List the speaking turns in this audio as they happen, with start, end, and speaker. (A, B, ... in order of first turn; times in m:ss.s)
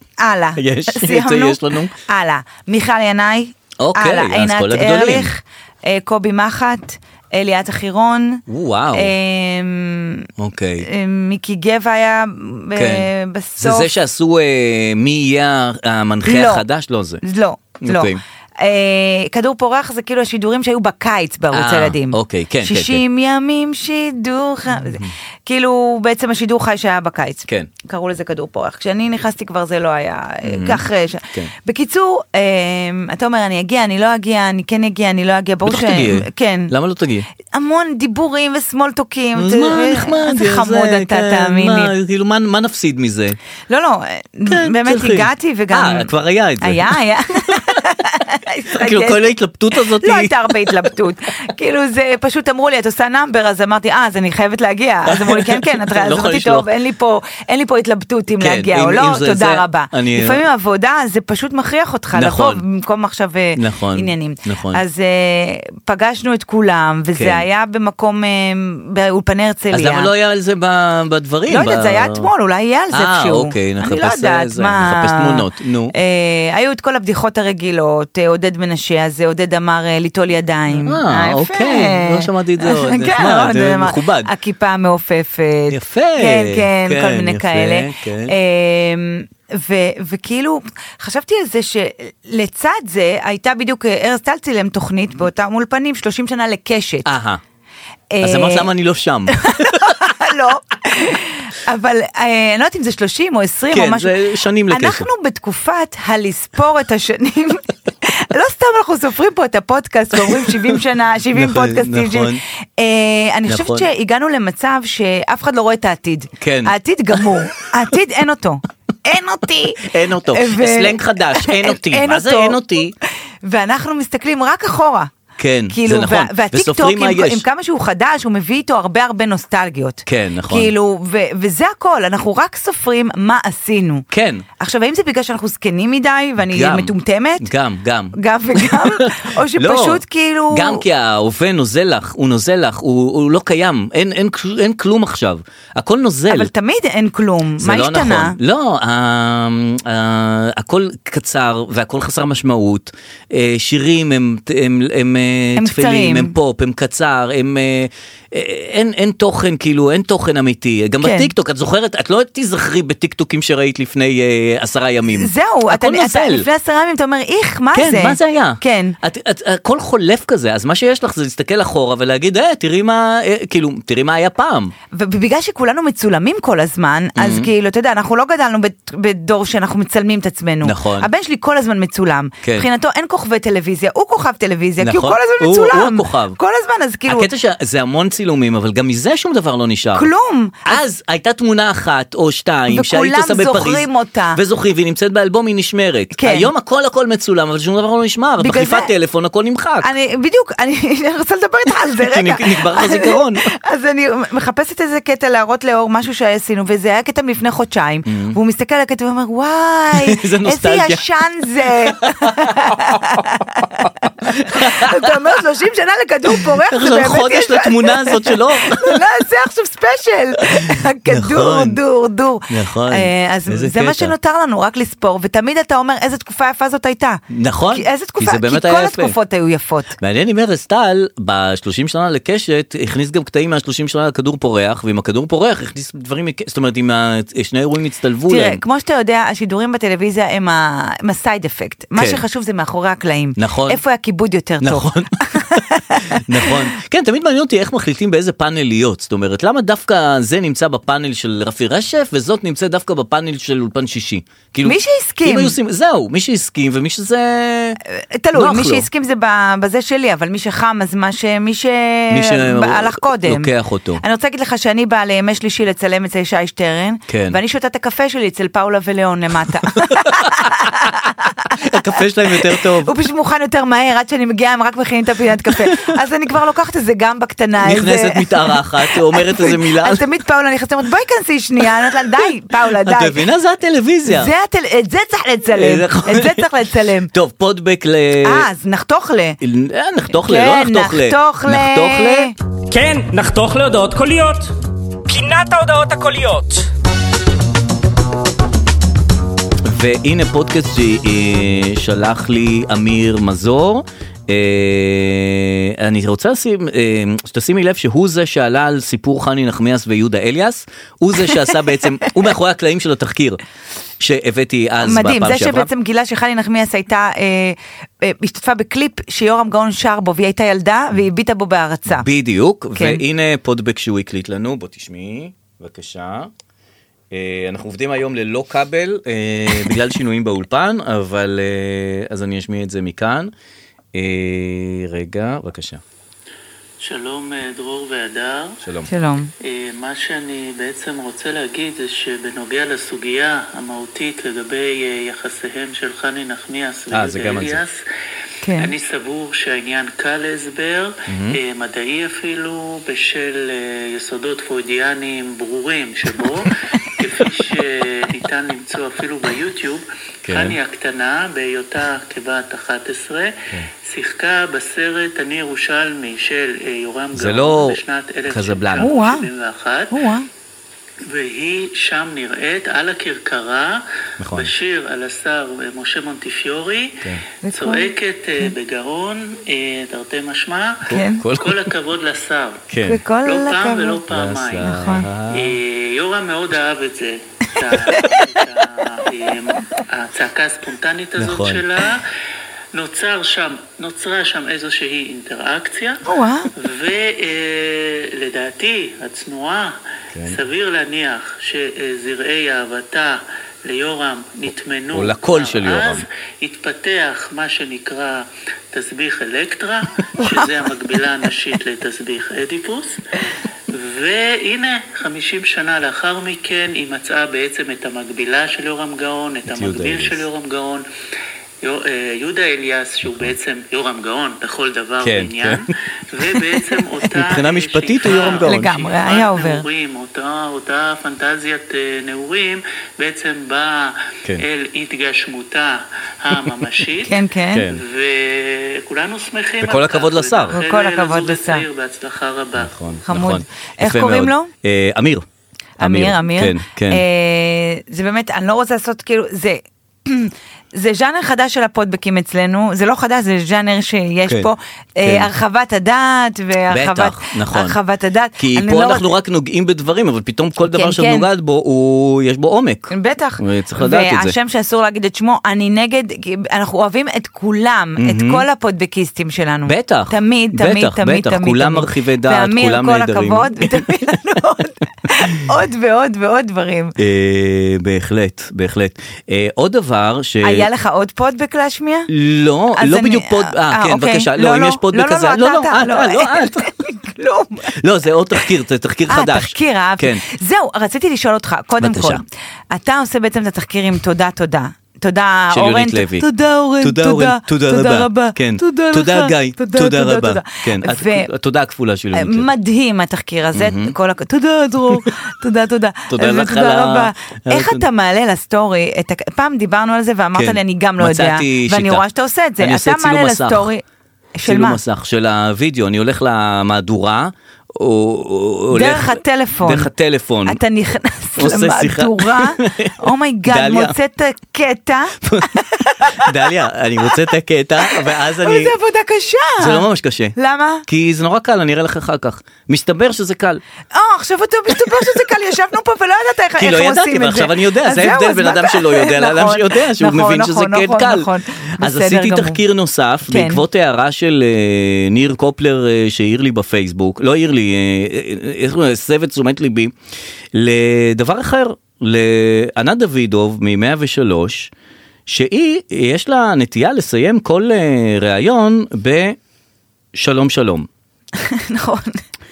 0:00.2-0:08.4 A
0:00.6-0:01.9 B
0:03.8-0:05.3 B
0:08.5-0:09.1 B
0:08.9-0:10.3 A
0:10.4-0:10.9 B
0:10.8-0:13.9 A
0:12.7-0:17.2 B
0:16.2-0:16.6 A
0:17.2-0:36.7 A
0:17.8-0:18.2 B
0:21.5-0:23.0 B
0:24.7-0:25.1 B
0:30.4-0:31.5 B
0:35.6-0:37.3 B
0:37.4-0:41.9 A
0:39.3-0:43.4 B
0:43.7-0:46.1 A
0:44.5-0:47.0 B
0:46.6-1:10.1 A
0:48.7-0:50.8 B
0:55.1-0:56.7 B
0:58.4-1:00.4 B
1:02.1-1:02.6 B
1:03.5-1:04.8 B
1:07.1-1:07.4 B
1:09.7-1:12.3 B
1:11.5-1:37.1 A
1:12.9-1:15.9 B
1:20.7-1:24.3 B
1:25.7-1:28.3 B
1:37.0-1:37.4 B
1:38.1-1:38.7 A
1:38.2-1:40.1 B
1:39.3-1:44.1 A
1:43.7-1:45.1 B
1:44.7-2:02.6 A
1:50.2-1:50.6 B
1:51.3-1:52.4 B
1:53.5-1:53.9 B
1:56.4-1:57.3 B
1:59.8-2:02.9 B
2:03.4-2:05.1 A
2:05.4-2:07.4 B
2:05.7-2:14.0 A
2:10.0-2:10.7 B
2:14.1-2:14.4 B
2:14.6-2:17.5 A
2:16.4-2:26.5 B
2:18.2-2:20.8 A
2:26.3-2:28.4 A
2:27.6-2:46.5 B
2:35.6-2:36.3 A
2:41.0-2:41.3 A
2:45.2-2:49.0 A
2:47.7-2:54.7 B
2:54.9-3:07.3 A
2:57.2-2:57.5 B
3:00.6-3:01.1 B
3:04.8-3:06.4 B
3:07.1-3:10.1 B
3:09.9-3:10.8 A
3:10.7-3:19.9 B
3:12.7-3:14.4 A
3:16.2-3:16.5 A
3:18.4-3:18.9 A
3:19.8-3:47.2 A
3:22.0-3:23.5 B
3:28.0-3:28.4 B
3:29.9-3:31.0 B
3:34.2-3:35.2 B
3:36.4-3:39.0 B
3:40.4-3:41.8 B
3:42.5-3:44.1 B
3:47.3-3:49.2 B
3:47.7-3:49.9 A
3:50.0-3:58.6 B
3:58.3-4:06.6 A
4:02.0-4:02.2 B
4:03.4-4:03.8 B
4:04.6-4:17.8 B
4:14.6-4:15.6 A
4:17.9-4:23.5 A
4:18.3-4:18.8 B
4:22.1-4:24.0 B
4:24.0-4:31.7 A
4:27.1-4:27.4 B
4:29.7-4:31.0 B
4:31.5-4:32.9 B
4:32.4-4:43.2 A
4:35.5-4:36.0 B
4:37.6-4:40.0 B
4:42.7-4:44.3 B
4:44.1-4:47.1 A
4:45.5-4:46.5 B
4:47.1-4:48.5 B
4:48.2-4:49.4 A
4:49.4-4:52.3 B
4:50.1-4:52.3 A
4:52.7-4:54.5 C
4:55.1-4:56.7 C
4:59.6-5:13.4 B
5:14.0-5:15.7 B
5:14.8-5:22.1 A
5:21.9-5:26.3 B
5:22.8-5:23.0 A
5:27.1-5:33.3 B
5:33.9-5:35.8 B
5:36.8-5:38.6 D
5:38.6-5:38.9 B
5:38.9-5:39.3 A
5:39.4-5:47.8 D
5:46.9-5:47.6 B
5:48.4-5:48.7 A
5:48.6-6:10.0 D
5:51.1-5:51.4 B
6:00.2-6:00.6 B
6:07.1-6:08.9 B
6:08.8-6:09.3 A
6:09.9-6:10.3 A
6:11.1-6:22.6 D
6:14.2-6:14.5 B
6:17.4-6:17.9 A
6:20.9-6:21.7 B
6:20.9-6:21.2 A
6:22.7-6:23.0 B
6:22.8-6:24.0 A
6:23.2-6:24.7 D
6:24.1-6:25.6 B
6:24.6-6:25.1 A
6:25.3-6:32.0 D
6:27.9-6:28.2 A
6:31.2-6:31.6 B
6:32.7-6:36.0 D
6:36.0-6:36.5 A
6:36.6-6:53.0 D
6:40.1-6:40.4 B
6:44.9-6:46.0 B
6:53.7-7:00.8 D
6:59.5-7:00.2 B
7:01.6-7:22.7 D
7:05.0-7:05.6 B
7:06.2-7:08.7 B
7:08.2-7:09.6 A
7:17.0-7:17.7 A
7:17.5-7:17.8 B
7:19.6-7:20.6 B
7:20.5-7:21.6 A
7:22.6-7:25.2 B
7:23.0-7:24.5 A
7:25.8-7:27.0 B
7:25.8-7:39.1 A
7:35.0-7:35.3 B
7:36.7-7:37.8 B
7:38.4-7:44.3 B
7:40.6-7:41.3 A
7:42.9-7:57.0 A
7:48.0-7:48.4 B
7:49.7-7:53.9 B
7:57.0-8:00.7 B
8:00.4-8:02.1 A
8:02.1-8:06.7 B
8:02.8-8:07.7 A
8:07.7-8:10.2 B
8:09.1-8:21.3 A
8:11.8-8:12.2 B
8:15.5-8:16.3 B
8:16.8-8:22.5 B
8:22.1-8:33.8 A
8:23.5-8:23.9 B
8:26.1-8:27.9 B
8:30.3-8:32.0 B
8:32.6-8:33.7 B
8:34.4-8:34.8 A
8:34.4-8:40.6 B
8:38.7-8:39.9 A
8:40.4-8:46.3 A
8:41.4-8:43.9 B
8:45.2-8:45.5 B
8:46.1-8:48.7 B
8:47.8-8:50.8 A
8:49.6-8:53.6 B
8:53.9-9:02.6 A
8:56.6-9:09.9 B
9:03.2-9:03.6 A
9:10.5-9:14.7 B
9:15.3-9:19.4 B
9:20.1-9:20.9 B
9:21.4-9:22.2 A